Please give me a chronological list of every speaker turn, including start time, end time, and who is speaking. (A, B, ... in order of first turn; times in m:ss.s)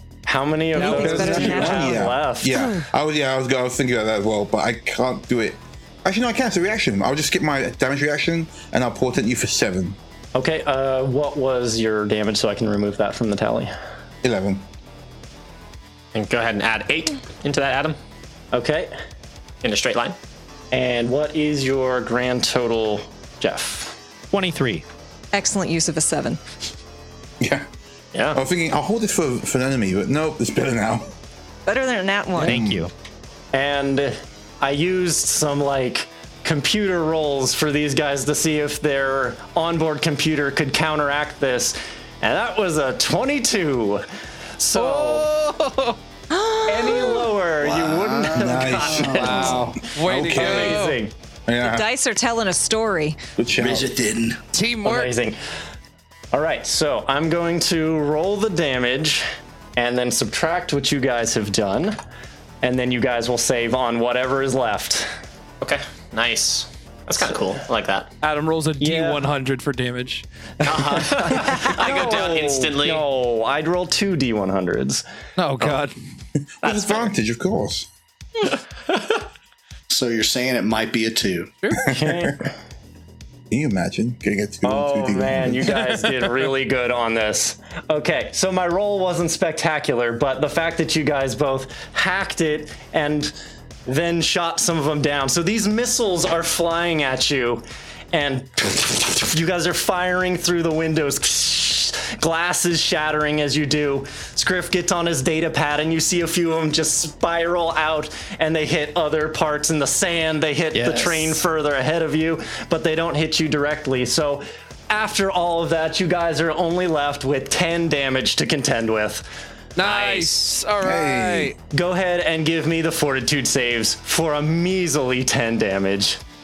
0:00.3-0:02.6 A
0:00.7-0:02.0 B
0:00.8-0:10.0 C
0:10.4-0:13.7 A
0:14.2-0:14.6 C
0:16.1-0:18.0 D
0:18.5-0:18.9 A
0:19.6-0:20.2 D
0:20.7-0:24.0 A
0:24.3-0:24.8 E
0:25.3-0:26.4 B
0:27.4-0:27.7 C
0:28.1-0:28.4 D
0:28.3-0:31.1 C
0:31.7-0:32.6 B
0:32.4-0:32.9 C
0:32.4-0:32.9 E
0:33.5-0:44.0 A
0:44.6-0:45.3 A
0:44.8-0:46.0 E
0:46.3-0:47.3 B
0:46.7-0:51.1 A
0:47.6-0:49.6 F
0:48.3-0:51.9 C
0:49.1-0:51.0 G
0:51.6-0:53.2 B
0:53.4-0:53.9 C
0:53.6-0:54.4 F
0:54.5-0:55.1 G
0:54.8-0:55.4 A
0:56.3-1:02.0 A
1:02.6-1:05.1 A
1:05.6-1:08.1 D
1:08.2-1:10.2 G
1:08.8-1:09.3 A
1:10.6-1:13.0 D
1:10.6-1:15.0 A
1:15.4-1:16.0 G
1:16.6-1:17.9 C
1:19.9-1:21.6 F
1:21.6-1:22.0 G
1:21.8-1:22.5 A
1:21.9-1:22.4 C
1:23.5-1:26.1 C
1:24.6-1:33.3 A
1:33.9-1:59.3 A
1:50.7-1:51.4 E
1:59.8-2:01.6 G
1:59.8-2:00.3 D
2:00.8-2:01.5 C
2:01.7-2:06.2 A